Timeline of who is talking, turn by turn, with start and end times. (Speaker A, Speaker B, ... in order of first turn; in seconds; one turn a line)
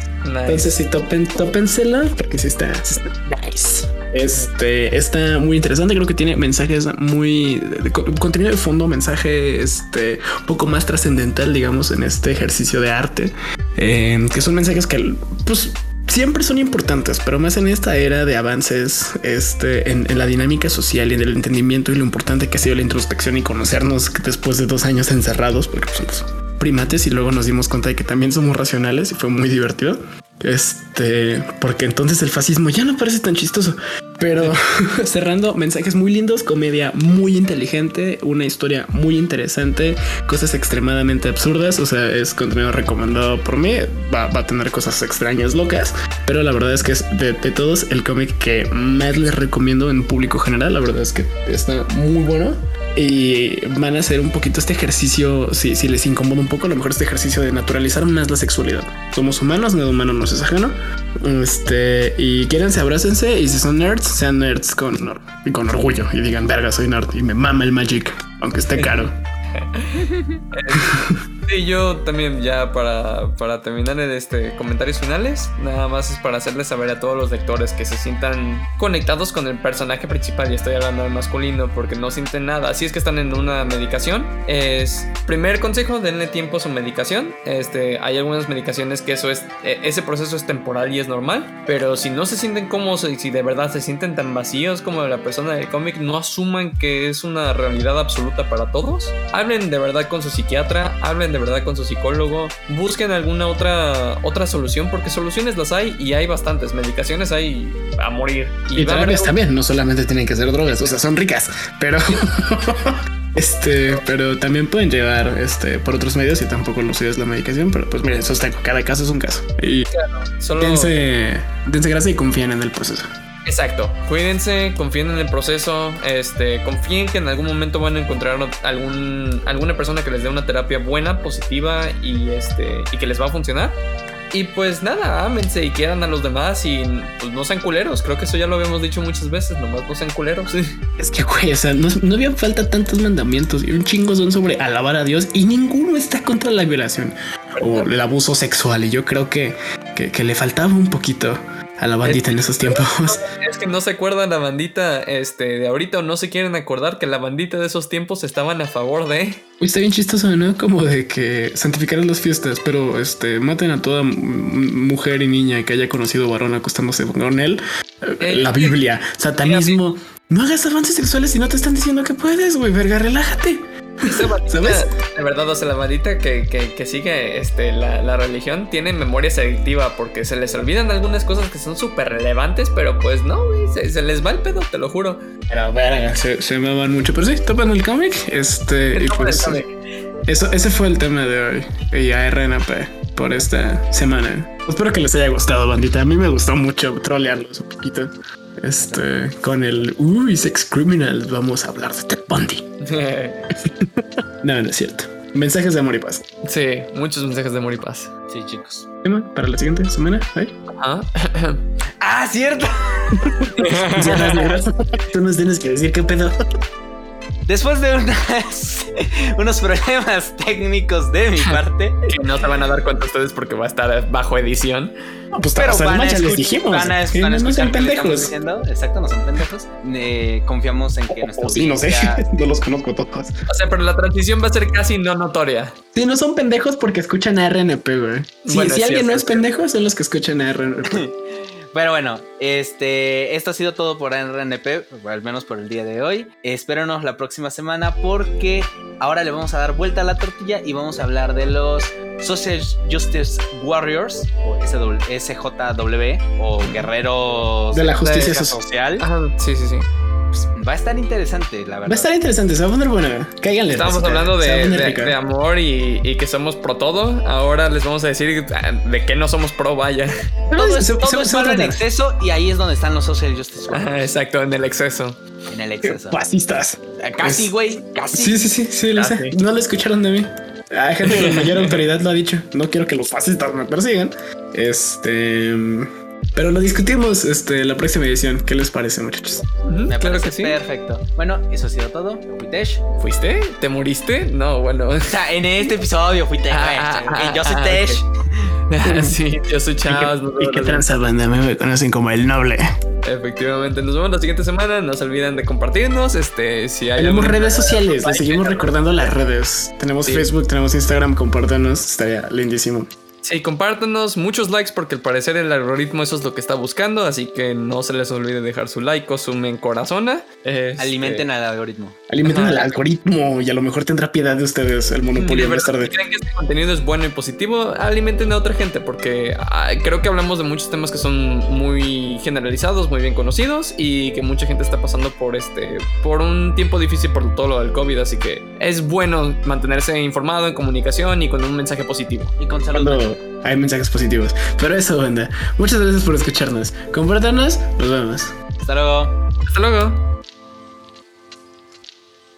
Speaker A: 0.2-0.7
Speaker B: 0.5-69.1
Speaker A: 68.8-70.9
Speaker B: 70.7-71.2
Speaker A: 71.5-109.3
Speaker B: 108.8-119.9
Speaker A: 119.9-120.9
Speaker B: 120.6-123.1
Speaker A: 123.4-133.8
Speaker A: 134.3-140.6
Speaker B: 141.0-153.2
Speaker A: 147.6-147.9
Speaker A: 152.0-159.4
Speaker B: 159.6-174.8
Speaker A: 168.2-168.8
Speaker A: 169.4-169.8
Speaker A: 174.1-185.2
Speaker B: 185.5-189.7
Speaker A: 188.9-189.7
Speaker B: 190.3-198.1
Speaker B: 198.6-202.6
Speaker A: 202.8-203.4
Speaker B: 203.6-206.2
Speaker A: 206.4-208.1
Speaker C: 208.3-208.8
Speaker B: 209.0-210.5
Speaker A: 210.7-211.6
Speaker C: 212.0-214.6
Speaker B: 213.2-216.3
Speaker A: 213.6-214.4
Speaker C: 217.4-222.0
Speaker A: 221.4-224.9
Speaker B: 225.3-228.3
Speaker C: 225.6-232.2
Speaker B: 231.1-233.3
Speaker A: 233.5-235.7
Speaker B: 235.9-241.1
Speaker A: 238.4-239.4
Speaker C: 240.9-241.2
Speaker C: 241.7-259.1
Speaker A: 256.6-256.9
Speaker B: 257.7-258.6
Speaker A: 258.0-258.4
Speaker A: 259.0-259.9
Speaker C: 260.4-262.1
Speaker B: 261.9-265.2
Speaker A: 263.7-270.1
Speaker B: 270.5-271.8
Speaker C: 270.6-274.1
Speaker A: 273.7-275.2
Speaker C: 275.5-276.2
Speaker B: 275.8-277.5
Speaker C: 277.0-278.4
Speaker B: 278.1-289.4
Speaker A: 278.9-279.4
Speaker A: 281.0-281.8
Speaker A: 289.6-290.6
Speaker C: 289.9-292.8
Speaker A: 293.0-295.1
Speaker C: 295.1-298.5
Speaker A: 296.5-298.0
Speaker A: 298.7-300.8
Speaker B: 298.8-299.1
Speaker B: 299.9-302.7
Speaker A: 303.0-308.7
Speaker B: 306.9-312.9
Speaker C: 307.3-308.6
Speaker A: 310.0-310.3
Speaker A: 313.2-321.3
Speaker C: 320.8-322.0
Speaker B: 322.1-325.9
Speaker A: 322.2-322.8
Speaker A: 325.2-342.3
Speaker C: 342.4-343.1
Speaker B: 342.7-348.3
Speaker C: 348.6-349.2
Speaker A: 349.4-350.0